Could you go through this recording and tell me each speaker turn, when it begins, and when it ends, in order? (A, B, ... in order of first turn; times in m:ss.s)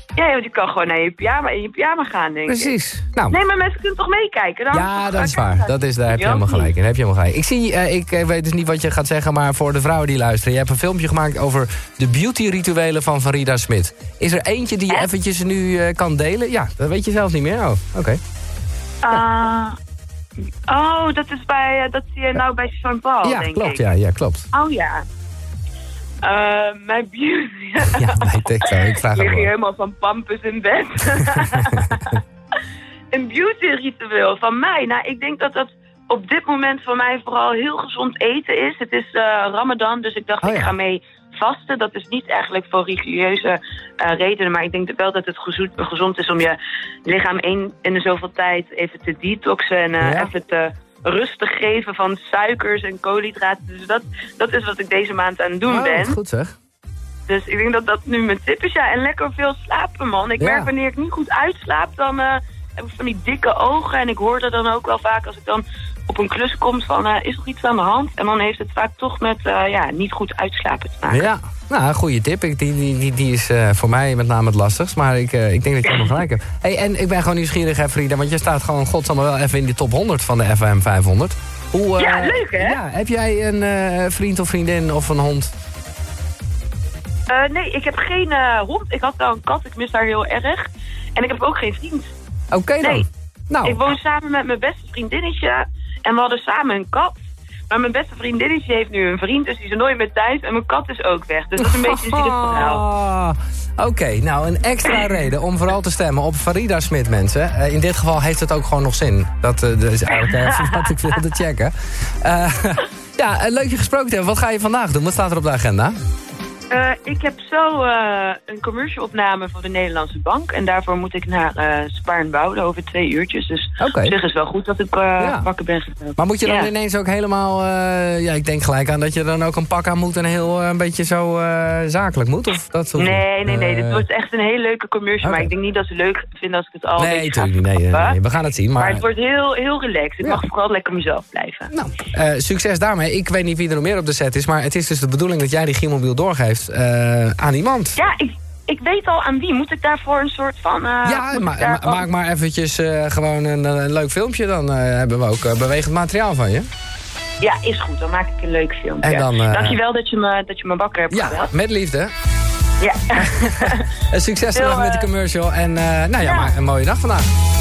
0:00.2-0:02.8 A
0:02.5-0:03.4 B
0:03.3-0:06.7 A
0:04.7-0:18.2 B
0:19.0-0:19.8 A
0:20.7-0:23.9 A
0:23.2-0:24.5 B
0:24.5-0:25.0 A
0:26.2-0:32.2 A
0:27.8-0:29.5 B
0:31.3-0:32.0 B
0:33.1-0:56.2 A
0:40.4-0:40.7 B
0:50.0-0:50.3 B
0:55.7-0:56.6 B
0:57.3-1:11.3 A
1:00.4-1:00.7 B
1:11.1-1:25.5 B
1:22.0-1:22.8 A
1:27.3-1:32.1 A
1:32.5-1:33.9 B
1:32.8-1:33.1 A
1:33.6-1:42.8 A
1:41.6-1:56.0 B
1:50.1-1:51.2 A
1:56.7-2:06.7 A
2:03.8-2:04.2 B
2:05.2-2:05.5 B
2:06.2-2:14.0 B
2:13.0-2:18.2 A
2:15.2-2:15.5 B
2:17.0-2:19.0 B
2:18.8-2:21.7 A
2:21.7-2:28.0 B
2:28.0-2:32.1 A
2:31.0-2:36.7 B
2:37.4-2:41.5 A
2:39.0-2:39.8 B
2:41.1-2:42.1 B
2:42.8-2:43.9 A
2:43.2-2:47.3 B
2:44.5-2:45.1 A
2:46.2-2:46.6 A